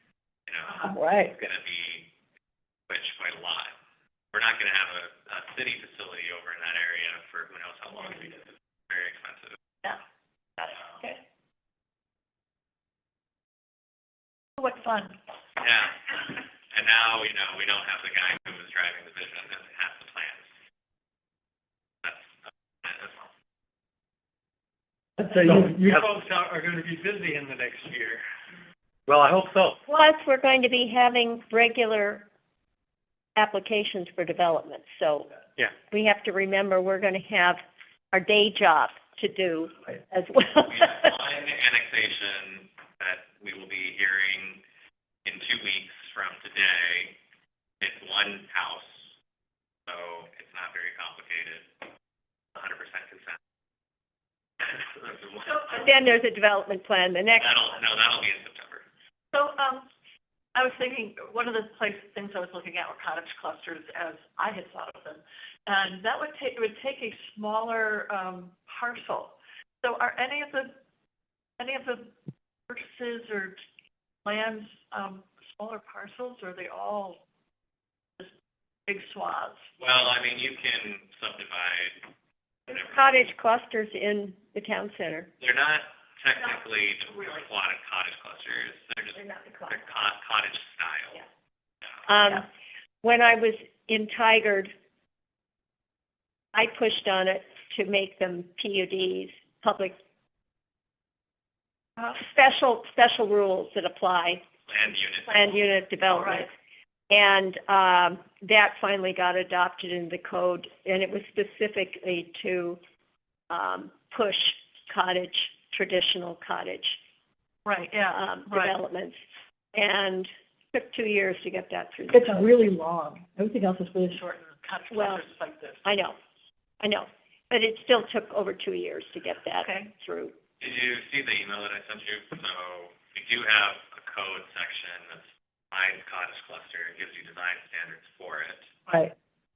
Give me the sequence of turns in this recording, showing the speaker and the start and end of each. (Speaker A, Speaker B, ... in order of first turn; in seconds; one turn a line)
Speaker A: 0.5-2.1
Speaker B: 0.8-1.3
Speaker A: 2.9-3.8
Speaker A: 4.3-9.6
Speaker C: 10.6-11.2
Speaker A: 10.7-11.0
Speaker C: 14.6-15.2
Speaker A: 15.6-20.5
Speaker A: 22.0-23.3
Speaker D: 25.3-28.2
Speaker D: 29.1-29.8
Speaker E: 29.9-32.3
Speaker E: 33.4-35.3
Speaker E: 35.9-41.1
Speaker A: 40.6-44.6
Speaker A: 45.2-47.2
Speaker A: 47.8-49.1
Speaker A: 49.9-51.7
Speaker A: 52.5-53.4
Speaker A: 54.6-55.5
Speaker E: 55.7-57.5
Speaker A: 57.4-58.8
Speaker C: 59.3-59.9
Speaker C: 60.5-70.8
Speaker C: 71.6-72.1
Speaker C: 72.7-73.6
Speaker C: 74.2-77.2
Speaker C: 78.9-79.7
Speaker A: 79.8-82.0
Speaker A: 82.7-83.1
Speaker E: 82.7-85.3
Speaker A: 85.4-91.2
Speaker E: 89.1-89.8
Speaker E: 92.1-92.5
Speaker E: 93.0-94.7
Speaker E: 96.5-100.0
Speaker E: 102.0-104.4
Speaker A: 104.7-105.5
Speaker E: 105.3-106.5
Speaker C: 106.1-106.5
Speaker E: 107.1-112.8
Speaker E: 113.5-117.0
Speaker C: 117.7-118.8
Speaker E: 118.1-119.2
Speaker E: 119.7-122.5
Speaker B: 122.1-124.2
Speaker C: 124.2-126.1
Speaker E: 124.9-125.2
Speaker E: 125.8-126.2
Speaker E: 126.8-130.3
Speaker C: 129.6-129.9
Speaker A: 130.6-138.7